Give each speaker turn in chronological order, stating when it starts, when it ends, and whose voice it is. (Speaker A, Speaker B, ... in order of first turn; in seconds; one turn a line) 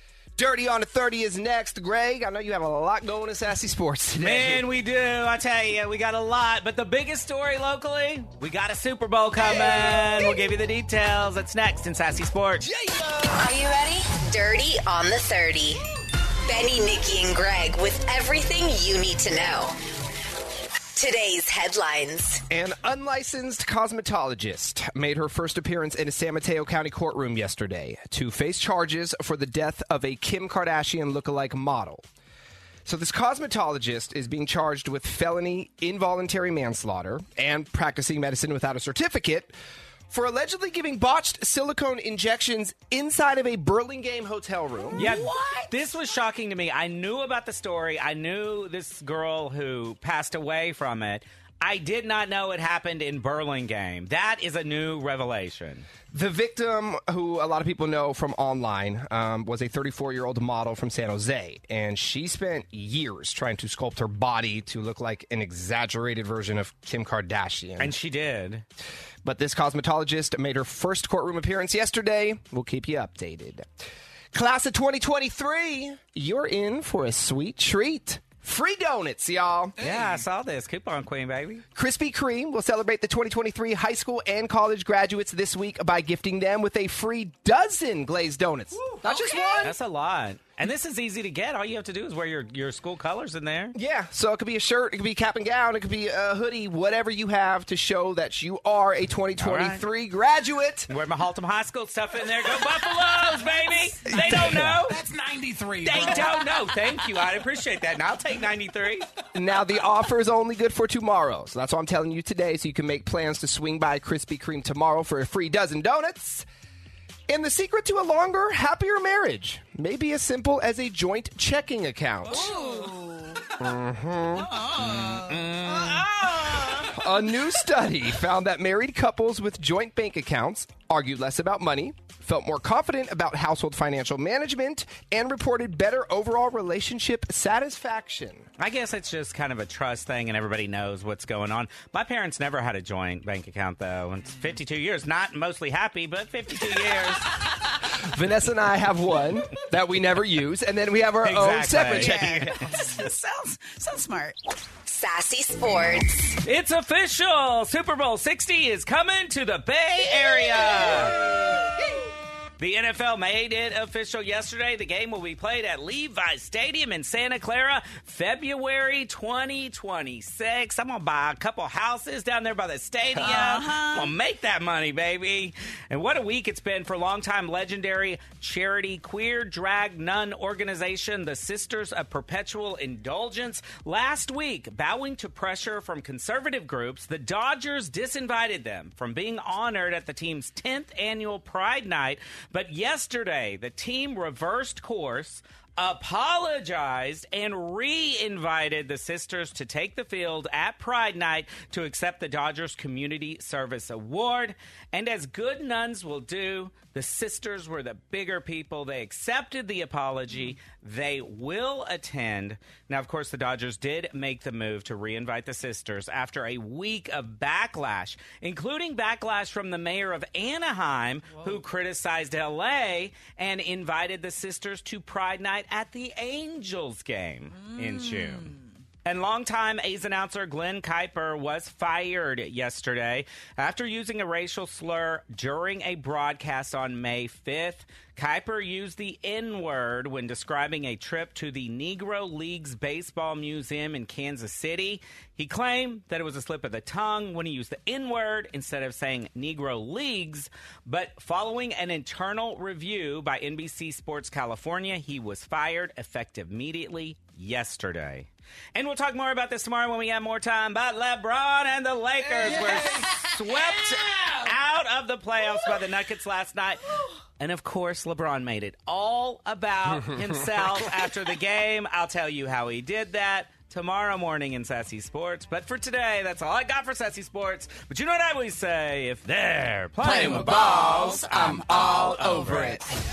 Speaker A: 0.4-4.6
Speaker B: 4.2-12.6
Speaker C: 13.2-15.8
Speaker C: 16.4-19.7
Speaker C: 20.9-22.4
Speaker A: 22.5-32.0
Speaker A: 32.8-39.5
Speaker A: 40.1-45.1
Speaker D: 44.9-45.7
Speaker B: 45.0-55.9
Speaker A: 56.1-67.9
Speaker B: 67.8-68.6
Speaker A: 69.2-73.7
Speaker A: 74.3-79.7
Speaker E: 79.8-80.2
Speaker B: 79.8-81.6
Speaker A: 81.7-89.7
Speaker E: 88.7-89.6
Speaker B: 89.6-93.7
Speaker A: 93.7-100.9
Speaker B: 99.4-99.8
Speaker B: 100.9-105.0
Speaker E: 104.1-106.7
Speaker A: 104.1-104.8
Speaker B: 105.8-109.1
Speaker A: 109.3-116.5
Speaker A: 117.3-122.5
Speaker D: 122.3-123.5
Speaker A: 123.6-124.5
Speaker D: 124.3-126.9
Speaker B: 124.8-126.8
Speaker A: 126.9-138.5
Speaker B: 138.6-147.4
Speaker A: 148.0-152.5
Speaker B: 151.2-152.9
Speaker D: 151.9-154.4
Speaker C: 154.8-156.3
Speaker B: 156.4-161.2
Speaker D: 160.4-161.8
Speaker B: 162.6-228.5
Speaker D: 173.2-174.1
Speaker D: 227.5-228.7
Speaker B: 229.0-266.8
Speaker E: 262.3-264.4
Speaker B: 267.4-282.8
Speaker A: 270.1-270.3
Speaker A: 280.0-282.8